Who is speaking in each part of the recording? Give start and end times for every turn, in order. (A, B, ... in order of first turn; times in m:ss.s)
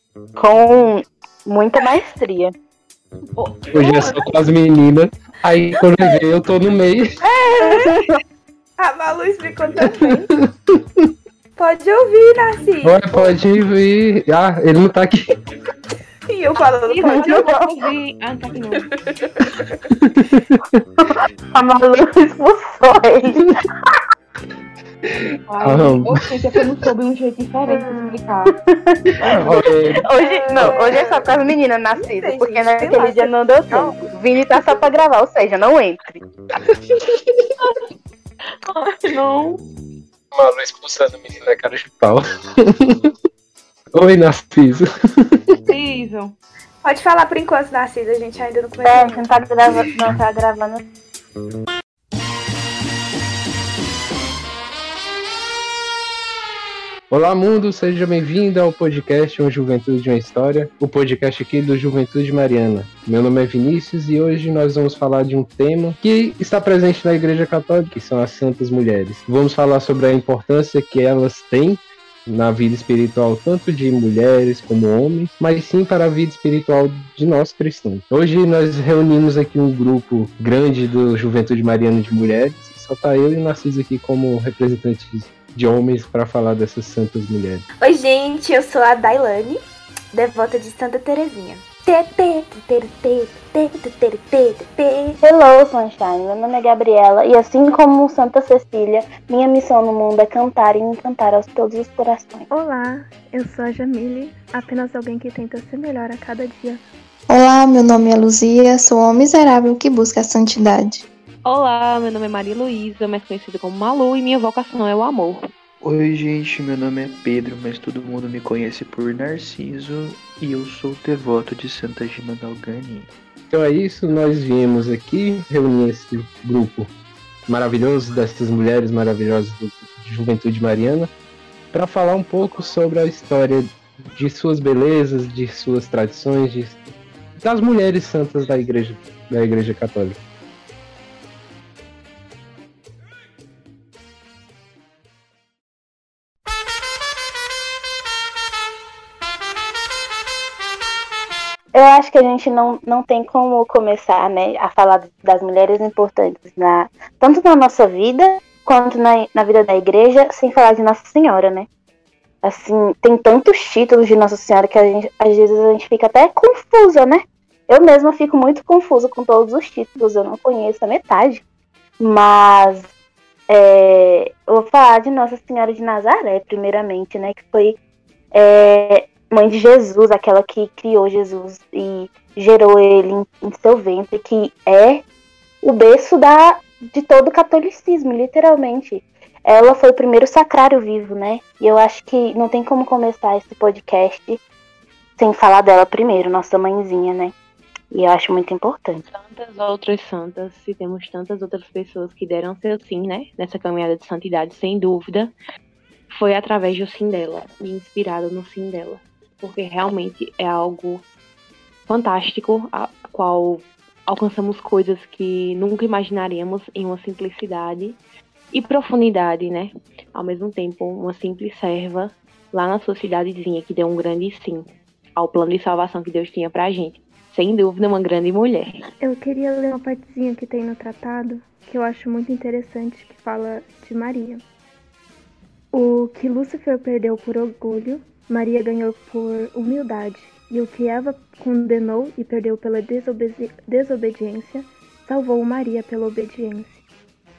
0:00.4-0:02.5 A
0:03.4-0:04.2 B
0:03.7-0:07.1 C
0:07.2-0:08.0 B
0:07.6-0:08.2 A
0:08.8-0:10.3 B
0:09.8-0:11.1 C
0:11.6-0:13.4 B
0:12.8-0:15.2 C
0:16.3-0:17.5 B
0:16.9-0:18.9 D
0:17.0-0:17.7 A
0:18.7-0:19.7 B
0:20.0-0:20.6 C
0:21.0-0:23.5 A
0:25.5-0:28.5 D
0:25.6-0:26.2 C
0:27.6-0:28.2 B
0:28.7-0:36.2 A
0:29.2-0:29.6 B
0:29.3-0:30.0 C
0:30.1-0:31.3 B
0:31.9-0:34.9 B
0:38.6-0:39.6 D
0:40.3-0:43.1 C
0:43.9-0:45.6 C
0:45.7-0:46.3 D
0:46.8-0:49.3 B
0:48.8-0:50.8 A
0:57.1-1:27.6 C
1:27.8-1:29.6 B
1:30.1-1:35.2 B
1:35.2-1:42.4 A
1:42.5-1:46.8 E
1:47.3-1:51.0 F
1:51.4-1:55.4 D
1:55.8-2:03.1 G
2:03.5-2:06.9 C
2:07.5-2:11.1 C
2:11.7-2:16.8 C
2:17.4-2:20.2 C
2:31.7-2:41.7 A
2:42.4-2:51.4 A
2:52.0-2:52.9 A
2:53.5-2:57.8 A
2:58.3-3:05.0 A
3:05.6-3:14.4 A
3:15.2-3:17.3 A
3:17.9-3:19.0 A
3:19.1-3:25.3 D
3:26.1-3:31.0 D
3:31.9-3:38.0 D
3:38.5-3:44.6 D
3:45.2-3:48.8 D
3:49.0-3:54.4 E
3:55.7-4:06.8 E